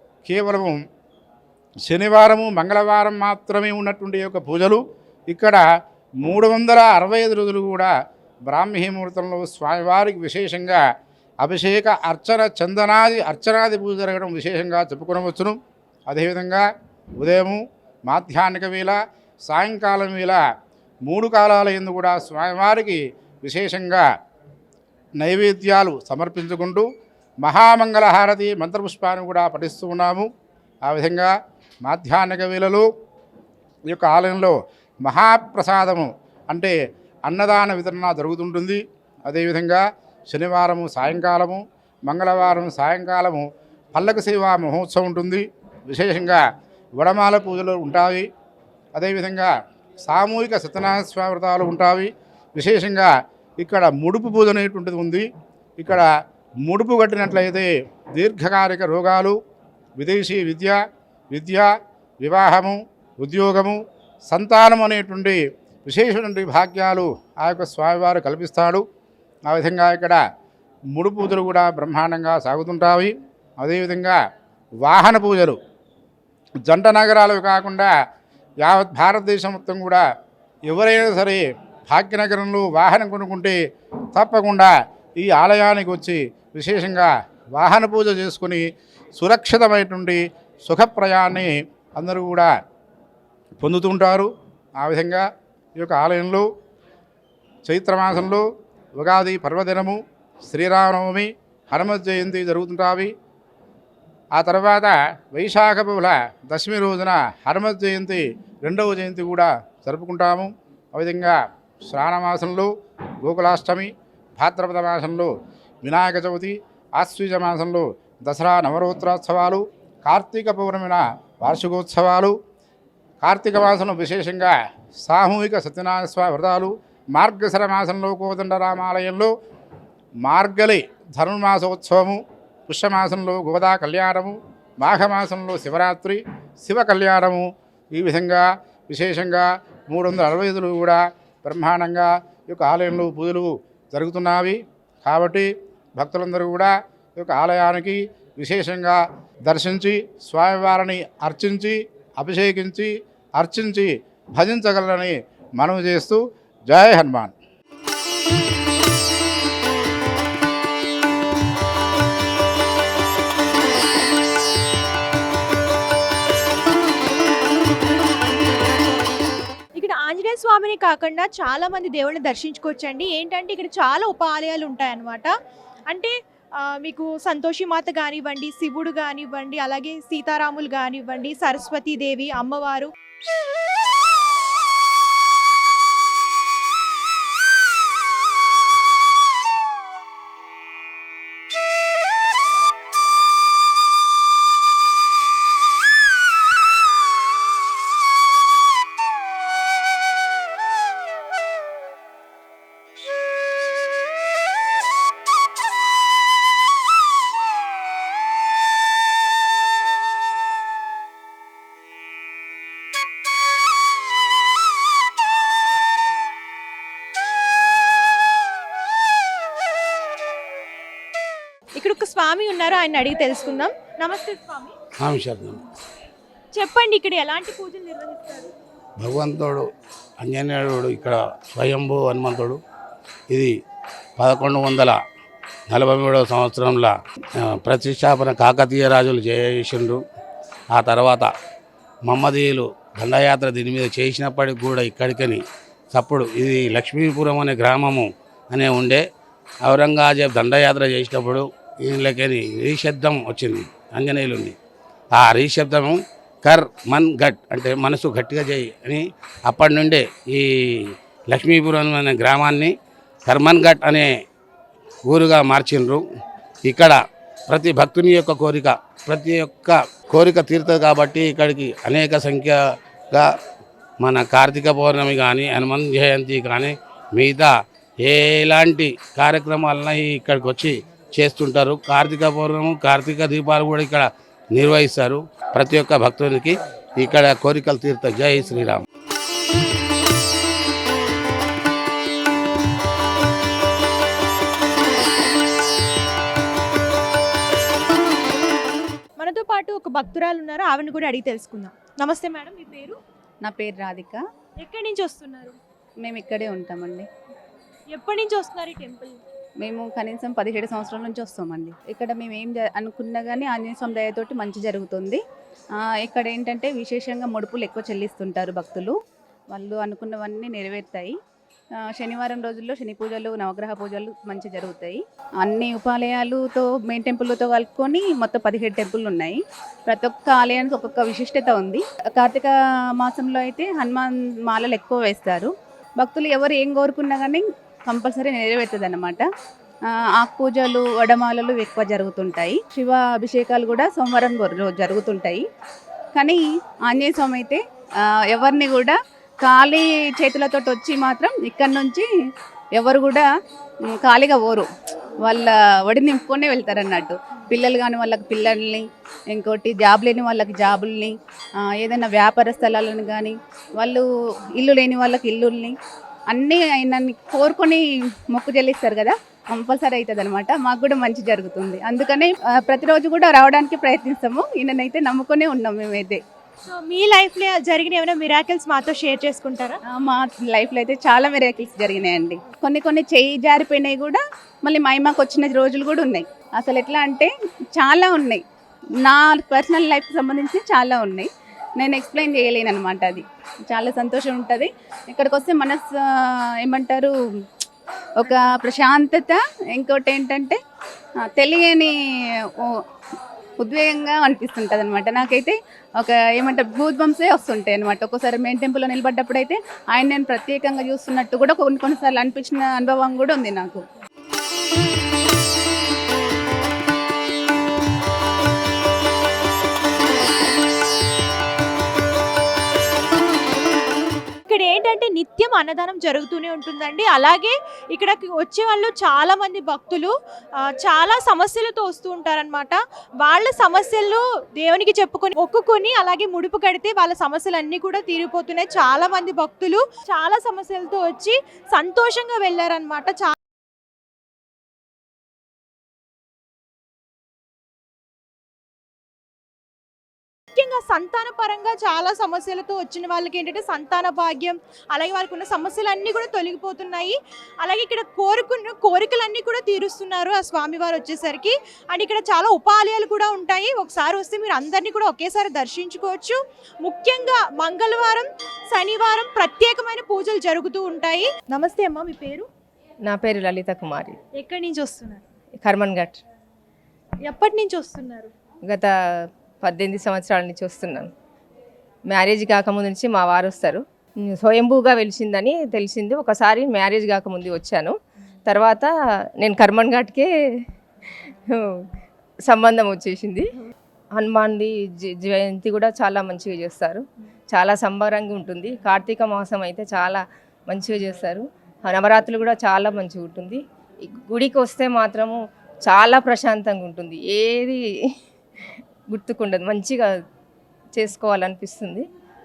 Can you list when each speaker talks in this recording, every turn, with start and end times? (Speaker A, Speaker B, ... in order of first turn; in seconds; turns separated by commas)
Speaker A: 0.2-0.8, Speaker A: 1.9-5.6, Speaker A: 6.2-7.9, Speaker A: 8.4-10.8, Speaker A: 11.4-15.6, Speaker A: 16.1-16.7, Speaker A: 17.2-20.4, Speaker A: 21.0-24.0, Speaker A: 25.2-26.9, Speaker A: 27.4-30.3, Speaker A: 30.8-31.3, Speaker A: 31.8-32.9, Speaker A: 33.9-46.4, Speaker A: 47.0-48.3, Speaker A: 48.9-55.2, Speaker A: 55.8-56.1, Speaker A: 56.6-59.4, Speaker A: 60.0-60.8, Speaker A: 61.3-68.8, Speaker A: 69.5-70.2, Speaker A: 70.9-74.2, Speaker A: 74.8-75.6, Speaker A: 76.6-77.9, Speaker A: 78.6-80.0, Speaker A: 80.7-83.5, Speaker A: 84.1-88.7, Speaker A: 89.2-92.5, Speaker A: 93.6-95.2, Speaker A: 95.8-96.5, Speaker A: 97.7-98.4, Speaker A: 99.0-103.1, Speaker A: 104.3-112.7, Speaker A: 113.2-115.3, Speaker A: 115.8-122.3, Speaker A: 123.2-129.3, Speaker A: 130.2-157.3, Speaker B: 169.7-175.3, Speaker B: 175.9-182.9, Speaker B: 221.8-224.7, Speaker C: 225.0-225.6, Speaker B: 226.5-228.5, Speaker C: 229.0-229.6, Speaker C: 230.2-232.6, Speaker C: 234.2-235.0, Speaker C: 235.7-240.0, Speaker C: 240.7-241.3, Speaker C: 242.1-245.4, Speaker C: 245.9-249.0, Speaker C: 249.6-254.5, Speaker C: 255.1-260.4, Speaker C: 261.3-262.7, Speaker C: 263.2-264.1, Speaker C: 265.1-266.0, Speaker C: 266.6-267.0, Speaker C: 267.5-272.6, Speaker C: 274.0-288.8, Speaker B: 299.2-303.0, Speaker D: 303.4-304.2, Speaker B: 304.6-305.6, Speaker D: 306.0-307.1, Speaker B: 307.9-309.2, Speaker D: 309.6-315.2, Speaker D: 315.9-318.9, Speaker D: 319.5-321.1, Speaker D: 321.9-339.2, Speaker D: 340.2-345.4, Speaker D: 346.9-347.6, Speaker D: 348.3-352.1, Speaker D: 352.8-353.2, Speaker D: 354.0-354.6, Speaker D: 355.2-361.1, Speaker D: 361.8-364.0, Speaker D: 364.6-365.7, Speaker D: 366.3-376.2, Speaker B: 376.6-379.8, Speaker D: 379.9-388.4, Speaker D: 389.0-391.3, Speaker D: 391.8-397.1, Speaker D: 398.2-400.6, Speaker D: 401.4-401.9, Speaker D: 403.6-413.8, Speaker B: 424.5-443.4, Speaker B: 450.5-472.4, Speaker E: 473.1-474.2, Speaker B: 474.3-475.2, Speaker E: 475.6-476.2, Speaker B: 477.2-478.3, Speaker E: 479.6-481.1, Speaker E: 482.1-483.8, Speaker E: 484.4-487.9, Speaker E: 488.5-488.9, Speaker E: 489.4-490.3, Speaker E: 492.5-493.4, Speaker E: 494.2-503.6, Speaker E: 504.1-505.4, Speaker E: 505.9-507.8, Speaker E: 509.1-510.0, Speaker E: 511.0-512.0